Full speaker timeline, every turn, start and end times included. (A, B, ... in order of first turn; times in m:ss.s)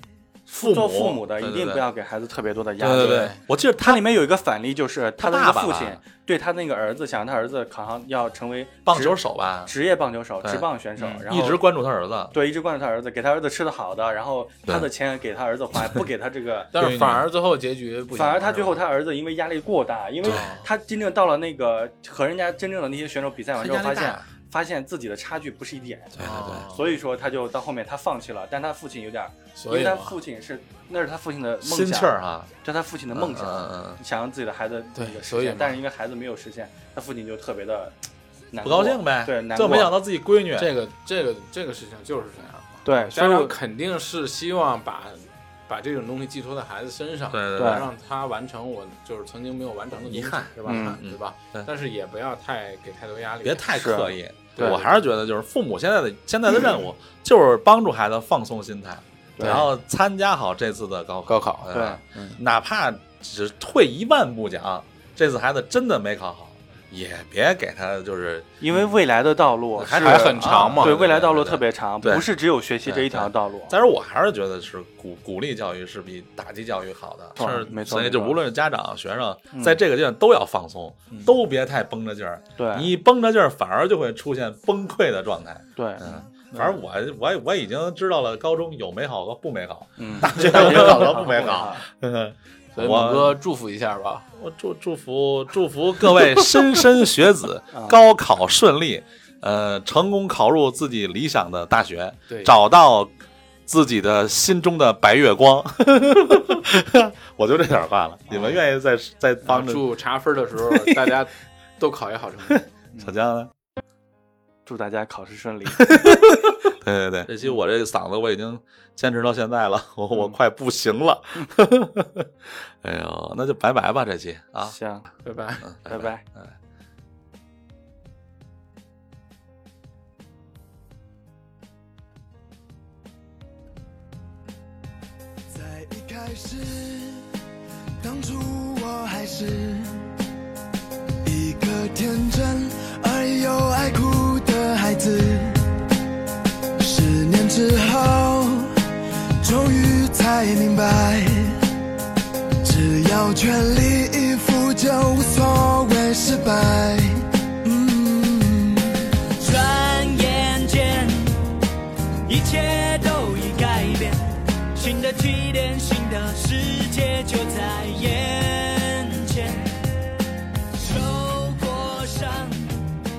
0:00.5-0:03.3 A
0:00.5-0:01.8 B
0:02.8-0:04.1 B
0:02.9-0:03.4 C
0:03.8-0:11.6 A
0:05.2-0:06.0 B
0:08.8-0:09.7 B
0:10.4-0:12.4 B
0:12.3-0:16.7 A
0:16.7-0:18.8 C
0:16.8-0:17.3 B
0:18.1-0:38.0 A
0:20.3-0:20.7 C
0:23.6-0:24.2 B
0:26.2-0:26.7 B
0:26.2-0:27.0 C
0:29.6-0:30.2 C
0:31.6-0:32.5 B
0:33.1-0:34.0 B
0:35.0-0:35.8 C
0:38.5-0:40.0 A
0:38.6-0:40.7 B
0:40.6-0:54.0 C
0:42.8-0:43.6 A
0:47.3-0:47.9 B
0:47.6-0:47.9 A
0:50.1-0:51.7 B
0:50.7-0:51.0 A
0:53.4-1:08.5 B
0:53.7-0:54.8 A
0:54.6-0:55.0 C
0:59.4-0:59.7 A
0:59.4-0:59.7 C
1:01.3-1:01.7 C
1:01.7-1:02.4 A
1:08.6-1:13.8 A
1:09.8-1:12.3 B
1:10.0-1:11.0 C
1:12.9-1:33.4 B
1:17.4-1:18.4 A
1:19.5-1:19.8 A
1:22.6-1:22.9 A
1:25.8-1:26.8 A
1:30.0-1:31.8 A
1:32.8-1:34.3 C
1:34.4-1:43.1 B
1:37.7-1:38.0 A
1:42.3-1:42.6 C
1:43.7-1:49.9 B
1:49.4-1:52.7 C
1:50.6-1:51.1 B
1:52.5-1:53.5 B
1:54.7-1:56.4 A
1:55.8-2:04.8 B
2:04.6-2:05.1 A
2:05.2-2:05.7 C
2:05.6-2:06.6 B
2:05.9-2:06.2 A
2:15.5-2:17.2 D
2:18.0-2:20.1 D
2:21.2-2:25.8 D
2:26.8-2:28.9 D
2:29.4-2:31.7 D
2:32.6-2:38.9 D
2:39.2-2:41.5 E
2:42.3-2:52.9 E